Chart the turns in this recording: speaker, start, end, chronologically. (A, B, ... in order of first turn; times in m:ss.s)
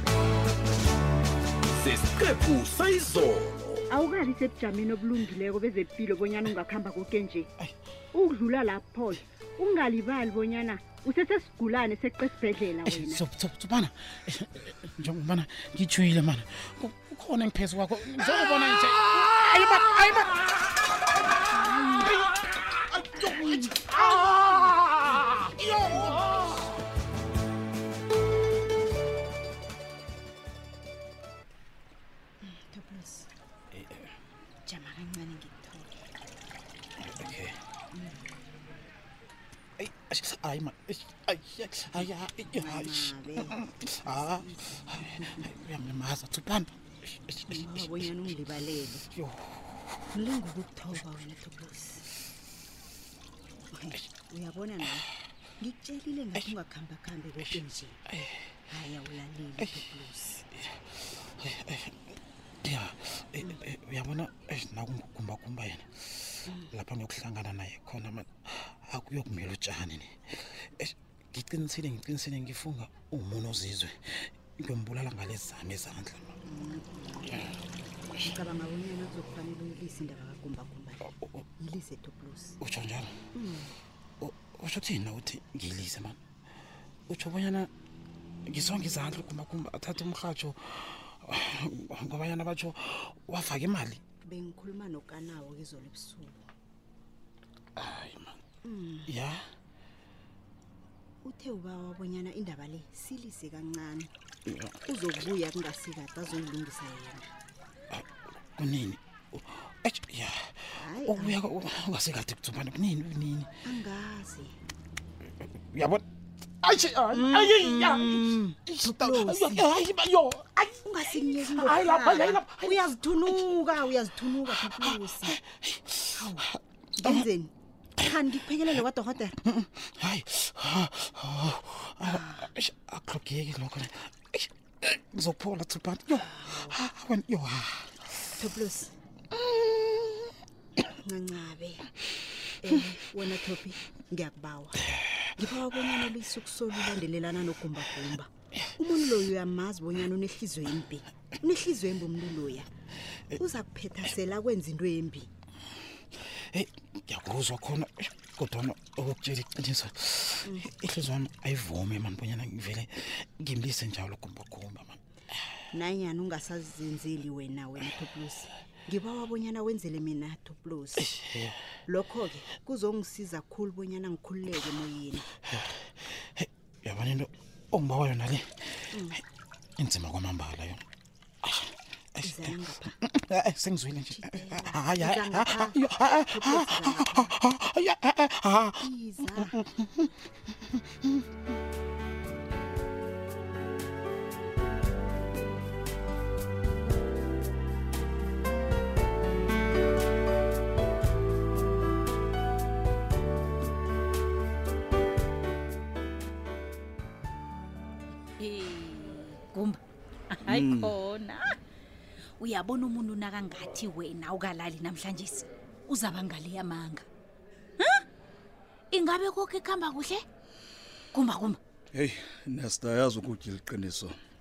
0:01.8-0:03.8 A
0:03.9-0:07.4 B
0:08.1-0:12.8 B
0:12.6-0:20.7 A
0:21.5-0:22.3 A
0:22.9-0:26.6 A
0:32.5-0:33.3 C
0:33.7-0:34.1 A
0:34.6-0:35.9 C
0:37.0-0:37.6 A
0:39.8-0:48.3 A
0:42.0-0:43.6 C
0:44.1-0:45.5 C
0:47.5-0:49.1 C
0:49.1-0:49.5 A
0:50.1-0:52.0 C
0:53.7-0:55.1 C
0:55.6-0:58.0 C
0:58.7-1:00.4 C
0:59.6-0:59.9 A
1:01.4-1:02.0 A
1:02.6-1:05.9 A
1:06.7-1:16.3 A
1:16.5-1:17.2 C
1:18.1-1:22.6 C
1:22.6-1:23.2 A
1:23.4-1:23.7 C
1:24.2-1:26.2 A
1:27.1-1:27.7 A
1:28.5-1:34.0 A
1:34.2-1:36.4 C
1:37.8-1:38.4 A
1:38.6-1:39.1 C
1:39.1-1:39.4 A
1:41.2-1:44.1 C
1:44.5-1:44.8 A
1:44.8-1:47.3 C
1:48.6-1:53.5 A
1:50.8-1:51.4 C
1:53.7-1:54.5 C
1:55.4-1:56.0 A
1:56.6-2:03.8 A
1:57.2-1:59.7 C
2:00.8-2:05.4 C
2:04.4-2:07.3 A
2:06.2-2:06.4 C
2:07.0-2:07.5 C
2:08.0-2:08.8 A
2:08.0-2:09.3 C
2:09.4-2:17.9 A
2:12.0-2:12.4 C
2:18.4-2:18.9 C
2:21.0-2:21.8 C
2:22.6-2:24.8 C
2:25.4-2:32.7 C
2:28.6-2:29.0 A
2:33.4-2:35.3 C
2:36.5-2:45.0 A
2:40.4-2:40.7 C
2:45.7-2:51.0 C
2:51.0-2:51.6 A
2:51.9-2:55.2 C
2:56.4-2:59.2 A
2:58.9-2:59.2 C
2:59.8-3:00.8 A
3:01.4-3:10.1 A
3:02.2-3:02.9 C
3:04.1-3:07.3 C
3:08.8-3:09.5 C
3:28.4-3:29.8 D
3:30.3-3:31.5 D
3:30.4-3:30.9 E
3:32.4-3:37.0 D
3:38.9-3:40.2 D
3:41.1-3:41.6 D
3:41.9-3:44.1 E